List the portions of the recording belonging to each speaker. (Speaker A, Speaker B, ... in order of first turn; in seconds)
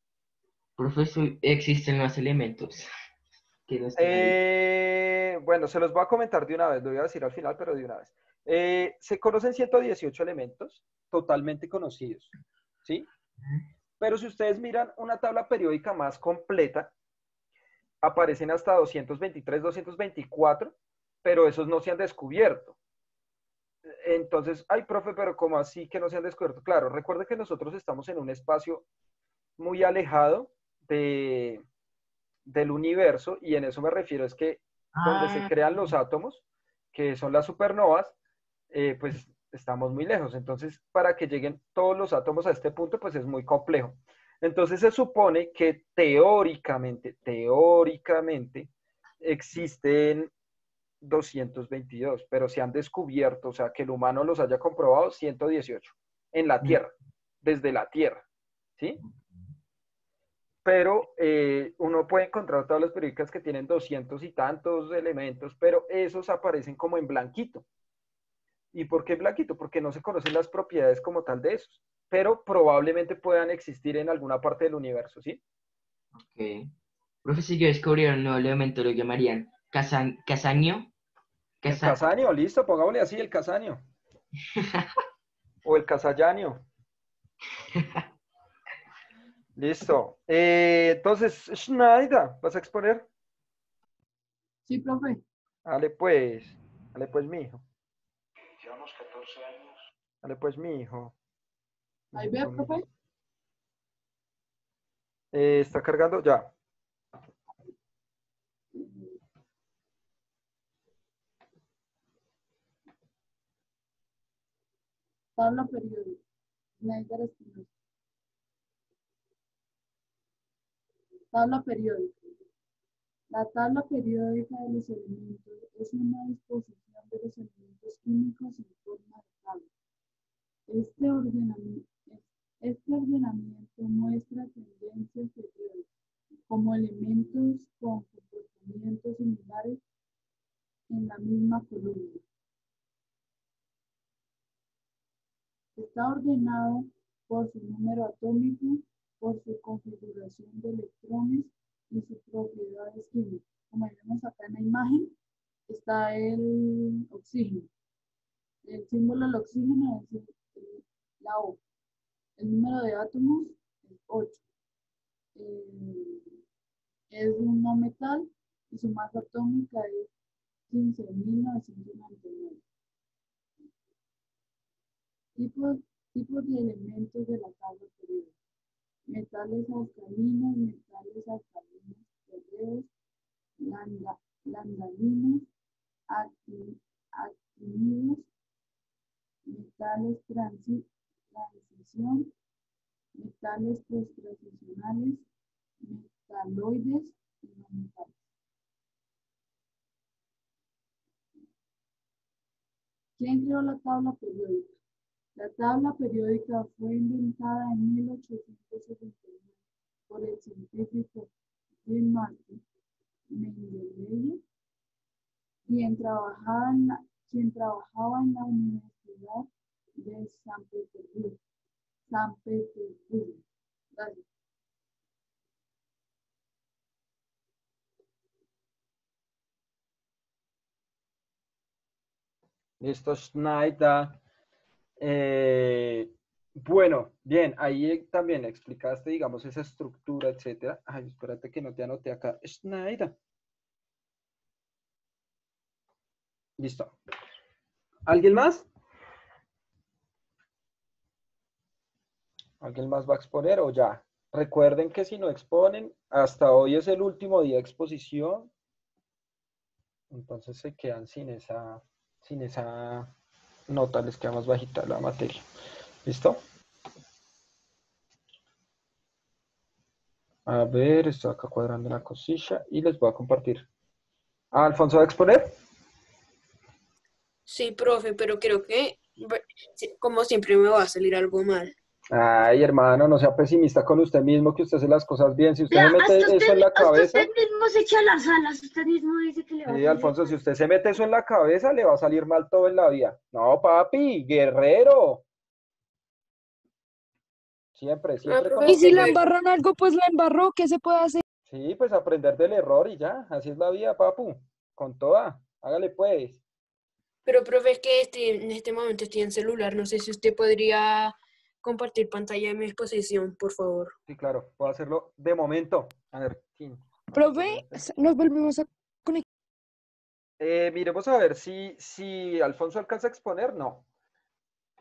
Speaker A: 0.8-2.9, 3.7-4.4, 35.0-35.5, 76.2-76.7, 77.2-80.9, 81.6-82.0, 84.6-84.8
Speaker B: 4.0-12.3, 14.0-16.9, 18.0-22.8, 23.9-28.8, 29.6-31.6, 32.5-36.4, 36.9-38.1, 38.7-48.7, 49.2-50.3, 51.0-56.9, 57.4-58.2, 60.6-67.6, 68.7-75.4, 81.7-83.8, 85.6-86.6, 89.5-93.1, 95.7-97.6, 98.8-99.3, 100.2-101.1, 102.1-102.8, 105.3-106.5, 232.8-234.2, 235.0-243.1, 246.6-246.9, 248.1-248.7, 252.6-258.5, 260.1-263.1, 263.7-265.4, 266.0-266.4, 270.4-273.6, 274.5-275.5, 282.1-287.3, 289.6-295.2, 297.8-299.1, 301.5-306.4, 314.1-317.8, 320.4-323.8
Speaker C: 94.7-95.2, 102.1-102.8, 108.7-109.2, 115.3-116.2, 116.8-117.7, 121.3-122.1, 123.3-129.7, 130.7-135.9, 136.5-139.8, 140.9-142.2, 145.8-155.1, 155.7-157.7, 158.6-161.6, 162.4-164.4, 165.3-166.3, 167.1-170.1, 170.7-172.6, 175.4-178.3, 179.1-182.9, 183.6-185.5, 186.1-188.3, 189.4-192.3, 193.2-195.3, 195.8-198.2, 203.2-204.7, 205.3-209.6, 210.1-211.3, 211.8-212.6, 213.3-214.4, 215.7-221.4, 222.1-224.2
Speaker D: 277.5-281.7, 298.2-299.2, 307.2-313.9
Speaker E: 285.7-290.4
Speaker F: 298.6-301.2, 317.1-319.2